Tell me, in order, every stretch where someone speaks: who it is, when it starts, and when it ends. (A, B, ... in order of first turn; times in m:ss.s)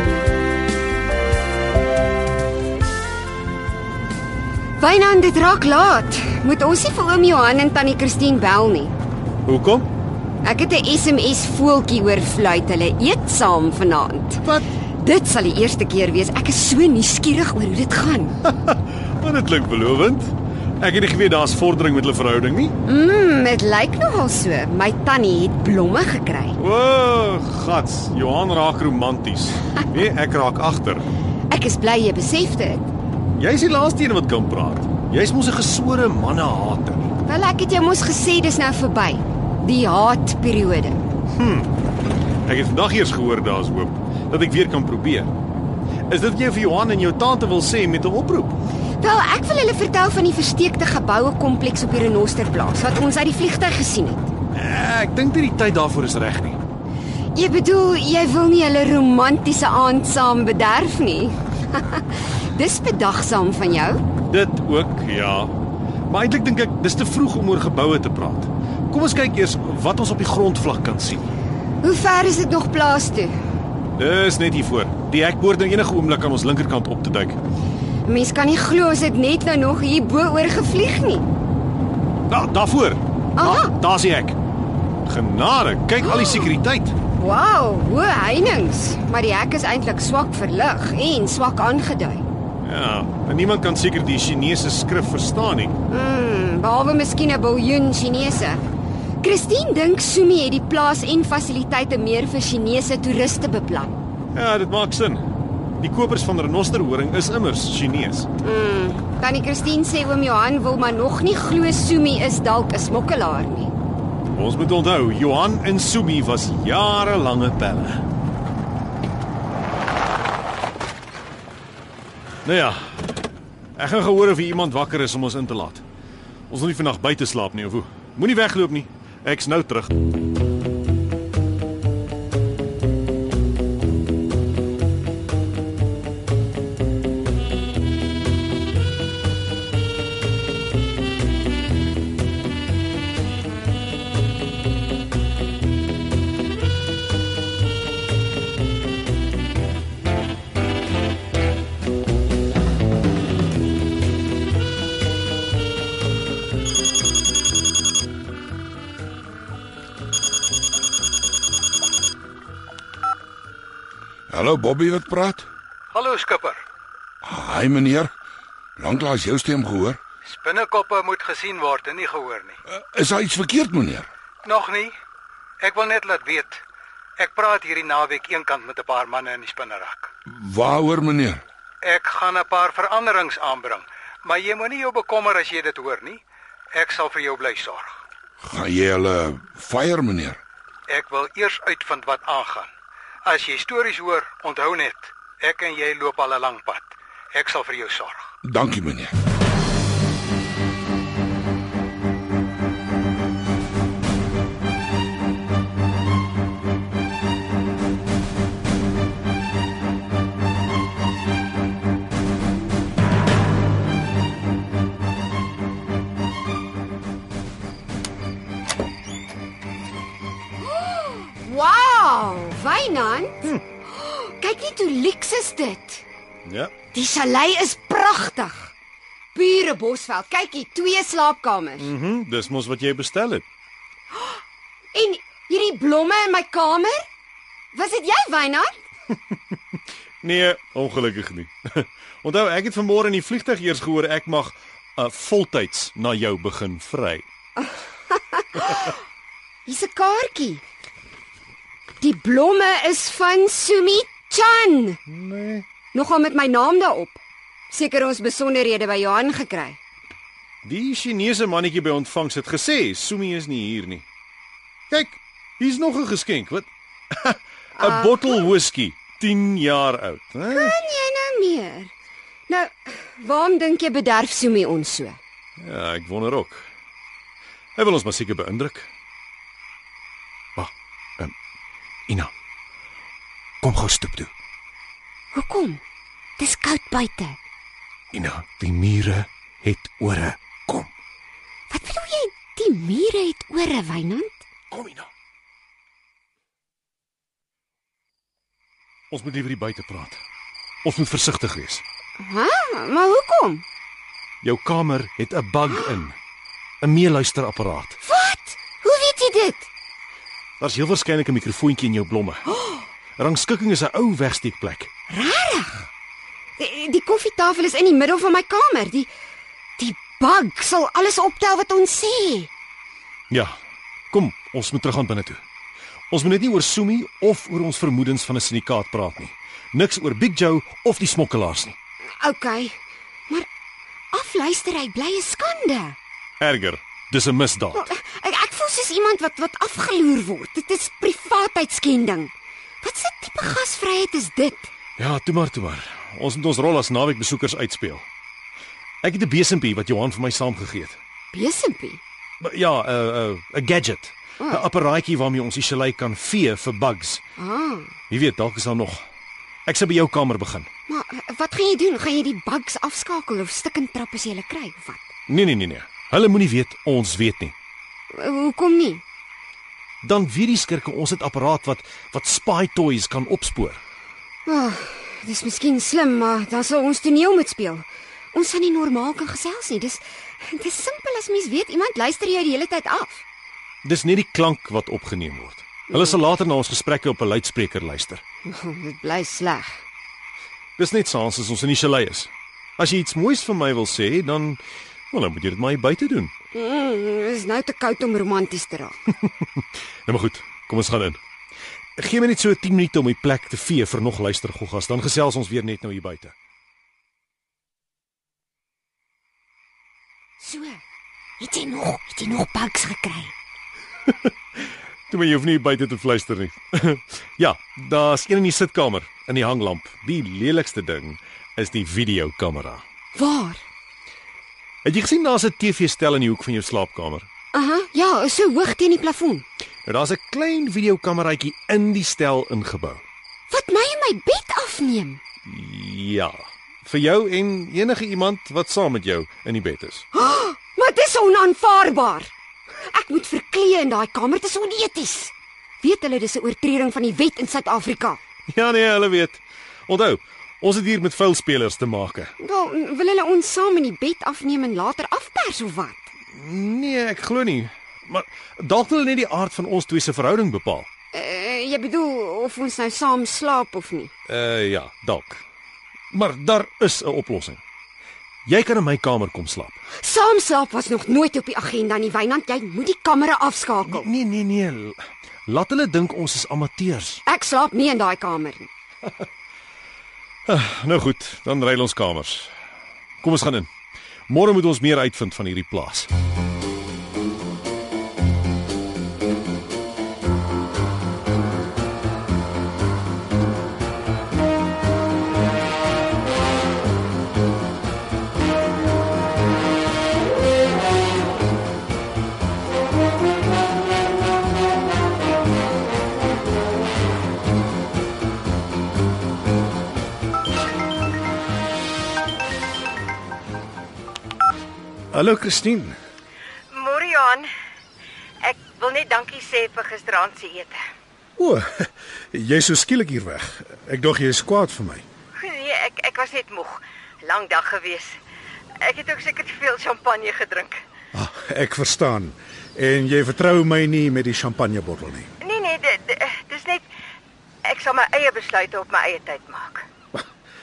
0:04.8-0:08.9 A
0:09.4-0:09.9 B
0:10.4-0:14.4 A
0:14.4-0:14.7 B
0:15.0-0:18.3 A
0:18.4-0:22.7 B
0:22.8-0:26.5 A
0:26.6-0:31.0 B
0:31.5-0:32.9 A
0:33.4-0:37.1 B
0:37.2-0:41.0 A
0:41.3-0:41.7 B
0:42.5-0:45.3 B
0:46.1-0:48.6 B
0:49.0-0:54.3 A
0:54.5-0:56.6 B
0:57.3-1:04.0 A
1:04.3-1:05.5 B
1:06.1-1:11.3 B
1:11.8-1:13.3 A
1:14.0-1:17.4 B
1:18.0-1:21.3 A
1:22.3-1:24.4 B
1:23.4-1:23.7 A
1:25.0-1:27.0 B
1:26.0-1:26.6 A
1:27.1-1:32.2 A
1:32.6-1:35.8 B
1:35.9-1:38.6 A
1:39.2-1:44.0 A
1:44.3-1:45.2 B
1:45.8-1:48.3 B
1:48.4-1:53.7 A
1:54.3-1:58.0 B
2:02.4-2:03.0 B
2:03.8-2:05.8 B
2:06.5-2:09.9 B
2:44.3-2:45.5 C
2:45.9-2:46.6 D
2:47.2-2:48.1 C
2:48.8-2:50.0 C
2:50.2-2:52.6 D
2:52.7-2:54.1 C
2:54.4-2:54.9 D
2:55.6-2:56.6 D
2:57.2-3:00.1 D
3:00.3-3:01.4 C
3:01.8-3:06.2 D
3:06.7-3:08.0 D
3:08.4-3:10.4 C
3:10.9-3:12.7 D
3:13.2-3:18.3 D
3:18.4-3:19.2 C
3:40.6-3:46.0 A
3:46.4-3:46.7 B
3:46.9-3:48.7 A
3:49.3-3:51.9 A
3:51.8-3:53.4 B
3:54.9-3:57.0 A
3:57.7-3:58.8 A
4:00.2-4:07.2 B
4:07.6-4:09.0 A
4:09.6-4:10.6 A
4:12.0-4:15.0 A
4:15.1-4:15.6 B
4:15.9-4:19.8 A
4:20.6-4:24.0 B
4:24.9-4:30.8 B
4:27.8-4:28.5 A
4:30.5-4:31.9 A
4:32.5-4:35.2 A
4:35.6-4:36.6 B
4:37.8-4:38.9 B
4:40.6-4:41.3 B
4:43.6-4:44.3 B
4:45.3-4:45.8 A
4:46.4-4:47.4 A
4:48.1-4:50.9 B
4:51.7-4:54.4 A
4:54.7-4:55.1 B
4:59.1-5:00.2 B
5:00.8-5:01.8 B
5:02.2-5:03.6 A
5:04.4-5:06.2 B
5:06.8-5:08.0 B
5:08.0-5:09.7 A
5:10.6-5:12.5 B
5:13.2-5:14.9 B
5:15.1-5:15.9 A
5:16.6-5:19.1 A
5:19.8-5:22.5 A
5:24.1-5:25.4 B
5:26.1-5:31.8 B
5:32.2-5:32.8 A
5:34.1-5:36.0 A
5:36.4-5:37.9 B
5:37.7-5:44.7 A
5:45.0-5:48.0 B
5:49.0-5:51.0 B
5:51.3-5:52.0 A
5:52.4-5:57.2 B
5:57.4-5:57.9 A
5:58.1-5:59.0 B
5:59.7-6:00.7 B
6:00.9-6:05.0 A
6:05.3-6:07.5 B
6:08.1-6:09.0 A
6:10.0-6:13.8 B
6:14.4-6:23.2 A
6:23.8-6:28.2 B
6:28.4-6:29.8 A
6:30.8-6:34.6 B
6:35.1-6:36.3 B
6:36.5-6:39.0 A
6:40.1-6:41.2 B
6:42.0-6:46.3 B
6:50.4-6:50.8 A
6:51.4-6:53.3 A
6:54.6-7:02.8 B
7:03.1-7:03.6 A
7:04.8-7:07.3 B
7:07.5-7:09.4 A
7:09.8-7:13.0 B
7:13.5-7:15.2 A
7:15.4-7:20.0 B
7:20.1-7:28.2 A
7:28.5-7:32.3 B
7:32.4-7:36.1 A
7:36.3-7:40.9 B
7:41.1-7:44.1 A
7:44.3-7:45.4 B
7:46.1-7:47.6 B
7:48.4-7:49.8 B
7:50.0-7:54.1 A
7:53.8-7:57.2 B
7:57.2-7:58.7 A
8:00.5-8:02.5 B
8:03.2-8:03.7 B
8:04.3-8:06.1 B
8:35.1-8:36.0 E
8:36.7-8:37.5 F
8:38.4-8:40.8 F
8:38.7-8:39.0 A
8:41.4-8:45.0 E
8:45.4-8:48.2 F
8:48.8-8:50.8 F
8:51.1-8:55.3 E
8:55.4-8:56.8 F
8:57.7-8:59.8 F
8:57.7-8:58.4 A